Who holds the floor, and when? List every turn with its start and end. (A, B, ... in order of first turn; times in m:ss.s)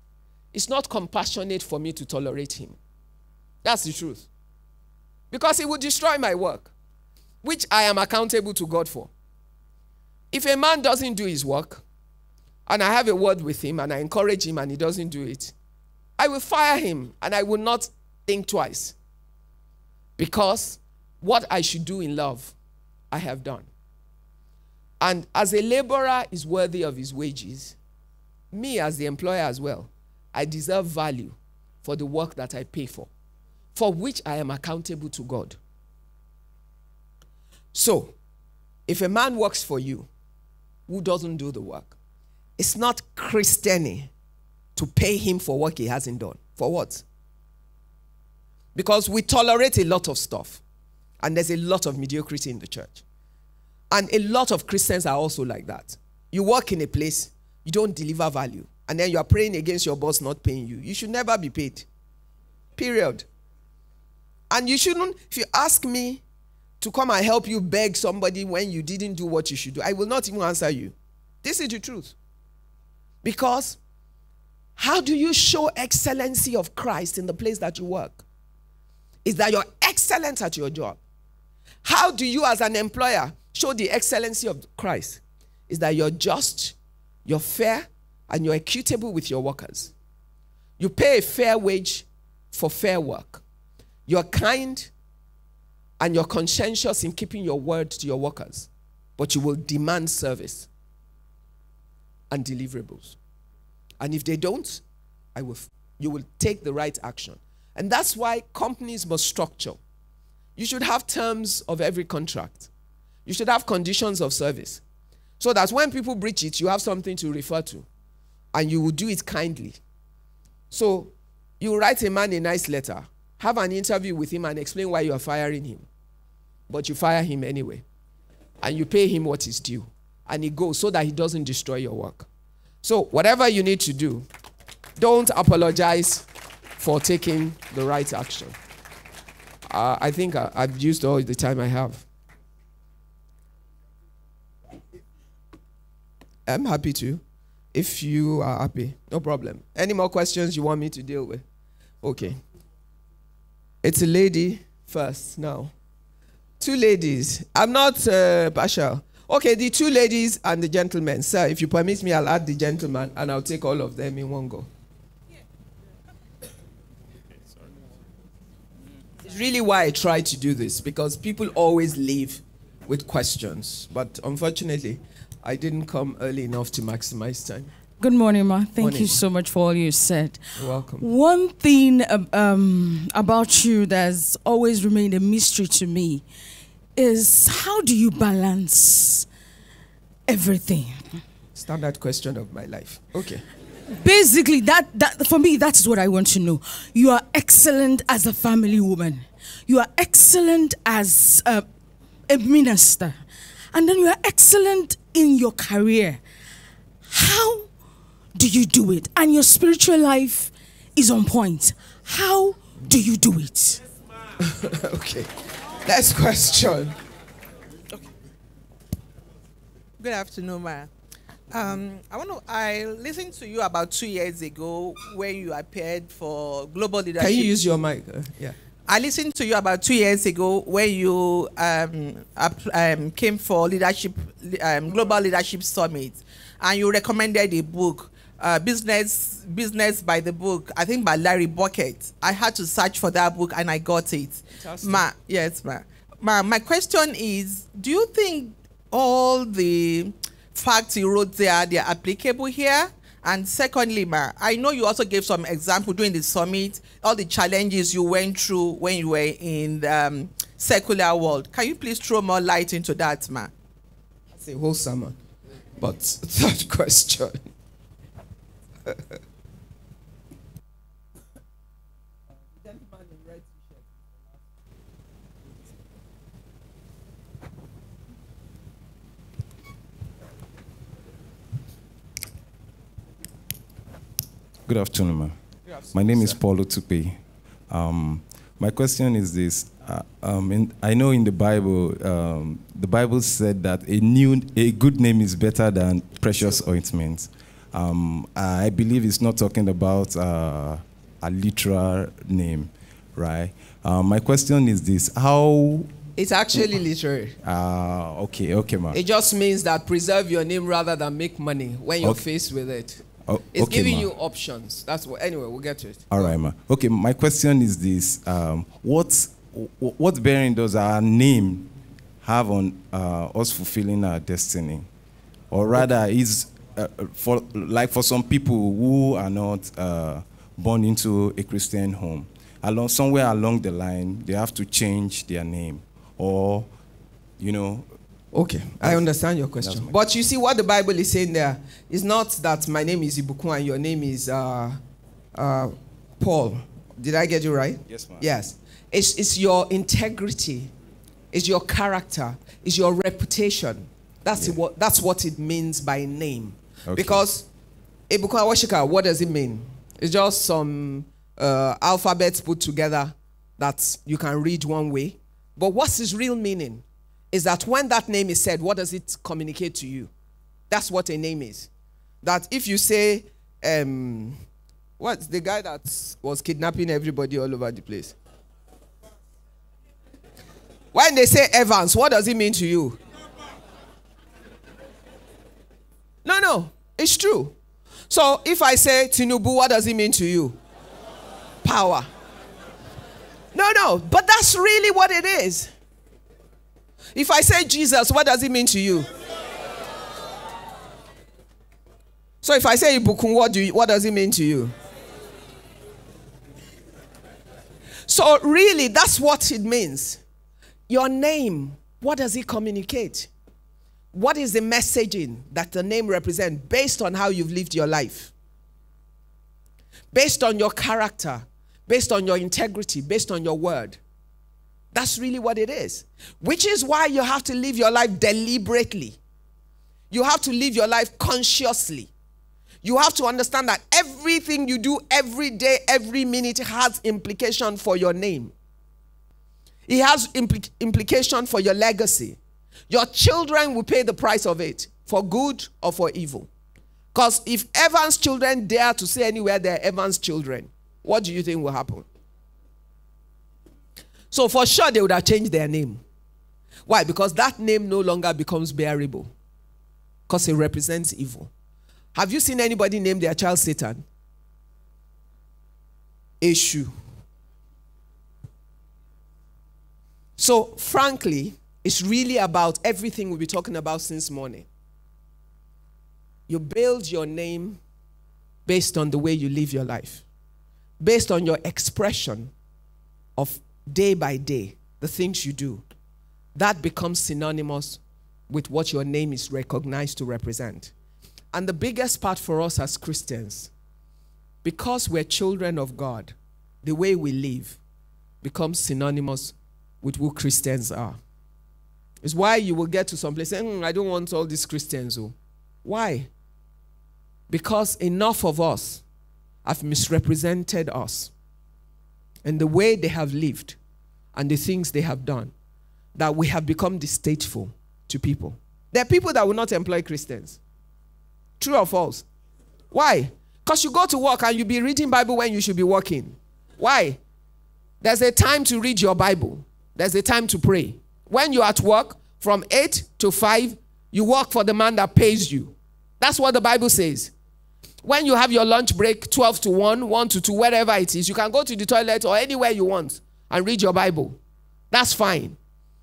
0:00.5-0:02.8 A
0:03.6-0:04.3 A
0:05.3-0:06.7 A
0:07.4-0:09.1 A
0:10.3-0:11.8 A
0:12.7-0:15.5 A
0:16.2-0:19.0 A
0:20.2-0:22.6 A
0:23.1-0:23.7 A
0:25.0-0:27.8 A
0:28.5-0:33.1 A
0:33.8-0:35.6 A
0:37.7-0:38.2 A
0:38.9-0:40.1 A
0:40.9-0:42.0 A
0:42.6-0:44.1 A
0:44.8-0:47.0 A
0:48.8-0:50.6 A
0:51.2-0:53.0 A
0:53.9-1:01.9 A
1:02.8-1:03.3 A
1:04.5-1:06.2 A
1:06.8-1:12.2 A
1:13.2-1:13.8 A
1:14.8-1:18.2 A
1:19.2-1:21.0 A
1:21.8-1:26.8 A
1:27.3-1:29.9 A
1:30.8-1:33.4 A
1:34.1-1:34.9 A
1:36.0-1:40.7 A
1:42.3-1:43.2 A
1:44.0-1:44.8 A
1:45.4-1:49.8 A
1:50.6-1:52.7 A
1:53.3-1:54.8 A
1:55.4-1:57.9 A
1:58.5-1:59.8 A
2:00.7-2:05.9 A
2:06.7-2:07.8 A
2:08.6-2:12.3 A
2:12.8-2:14.3 A
2:15.0-2:16.3 A
2:16.8-2:18.6 A
2:19.7-2:22.1 A
2:26.5-2:27.2 A
2:27.7-2:31.4 A
2:32.0-2:32.4 A
2:33.8-2:35.7 A
2:36.6-2:44.7 A
2:49.2-2:57.7 A
2:58.0-3:00.4 B
2:58.8-2:59.2 A
3:00.6-3:01.1 A
3:01.0-3:06.2 B
3:07.0-3:09.3 B
3:10.3-3:11.2 B
3:11.6-3:13.4 A
3:13.9-3:21.7 B
3:22.3-3:23.2 B
3:23.7-3:26.2 B
3:27.1-3:27.7 B
3:28.4-3:33.8 B
3:34.4-3:35.3 A
3:35.8-3:37.0 A
3:40.0-3:40.9 C
3:41.5-3:47.6 C
3:47.2-3:48.6 A
3:48.9-4:23.5 C
4:04.5-4:05.1 A
4:24.4-4:25.2 A
4:25.8-4:27.5 A
4:32.5-4:34.2 A
4:44.7-4:45.4 D
4:45.7-4:46.4 A
4:45.9-5:05.9 D
4:56.3-4:56.6 A
5:06.2-5:07.4 A
5:07.4-5:09.0 D
5:08.9-5:16.4 A
5:13.3-5:14.1 D
5:16.1-5:24.9 D
5:25.5-5:36.7 D
5:37.4-5:37.9 D
5:38.3-5:44.8 A
5:38.8-5:40.0 D
5:45.4-5:50.7 A
5:47.9-5:48.2 D
5:51.3-5:57.5 A
5:56.9-5:57.3 D
5:58.1-6:10.1 A
6:10.7-6:11.7 A
6:12.2-6:14.4 A
6:15.0-6:18.2 A
6:20.9-6:23.0 A
6:26.2-6:27.6 A
6:28.1-6:30.6 A
6:31.6-6:32.1 A
6:33.5-6:35.7 A
6:37.1-6:39.1 A
6:42.4-6:44.7 A
6:48.1-6:50.2 A
6:50.9-6:53.3 A
6:54.1-6:58.3 A
7:00.1-7:04.0 A
7:04.9-7:09.2 A
7:10.1-7:12.1 A
7:12.8-7:18.5 A
7:19.9-7:22.4 A
7:22.9-7:26.5 A
7:27.1-7:32.1 A
7:34.3-7:36.0 A
7:36.9-7:39.3 A
7:40.3-7:41.5 A
7:42.1-7:44.0 A
7:46.4-7:46.9 A
7:50.4-7:54.7 A
7:56.5-7:57.8 A
7:58.7-8:00.2 A
8:01.0-8:02.5 A
8:03.4-8:05.8 A
8:06.6-8:10.9 A
8:11.5-8:13.7 A
8:14.6-8:17.8 A
8:18.4-8:21.2 A
8:22.2-8:26.3 A
8:27.5-8:29.0 A
8:29.6-8:31.3 A
8:32.4-8:33.8 A
8:34.4-8:35.5 A
8:36.2-8:40.6 A
8:41.6-8:42.3 A
8:42.9-8:47.2 A
8:48.0-8:57.3 A
8:58.0-9:04.4 A
9:04.9-9:05.6 A